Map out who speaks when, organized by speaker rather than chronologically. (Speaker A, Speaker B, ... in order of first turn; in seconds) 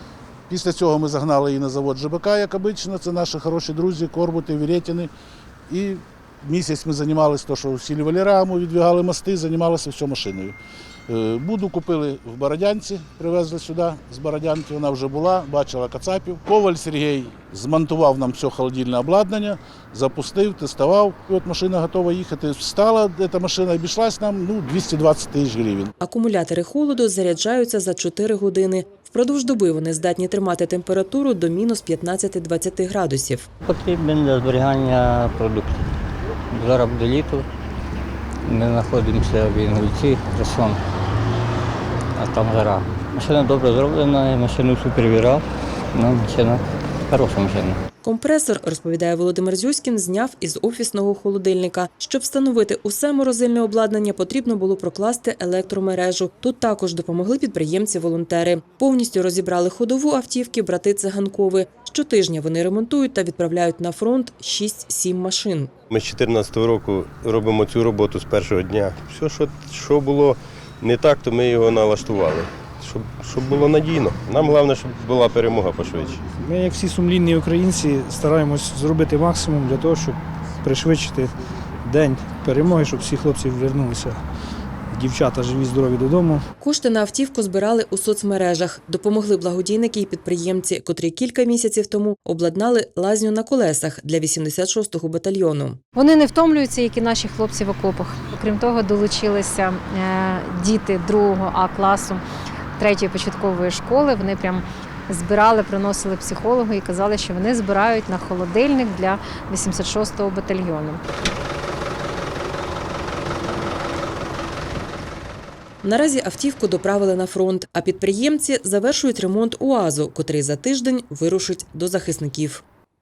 Speaker A: 0.5-5.1, 5.7-10.6, 11.1-25.9
Speaker B: 26.0-33.5, 48.0-65.7, 86.6-95.8, 115.8-122.6
Speaker C: 33.7-35.8, 36.5-37.5, 38.5-40.8, 42.2-47.8
Speaker D: 65.9-76.2
Speaker E: 76.4-84.2, 84.9-86.4
Speaker F: 96.0-102.2, 102.8-111.0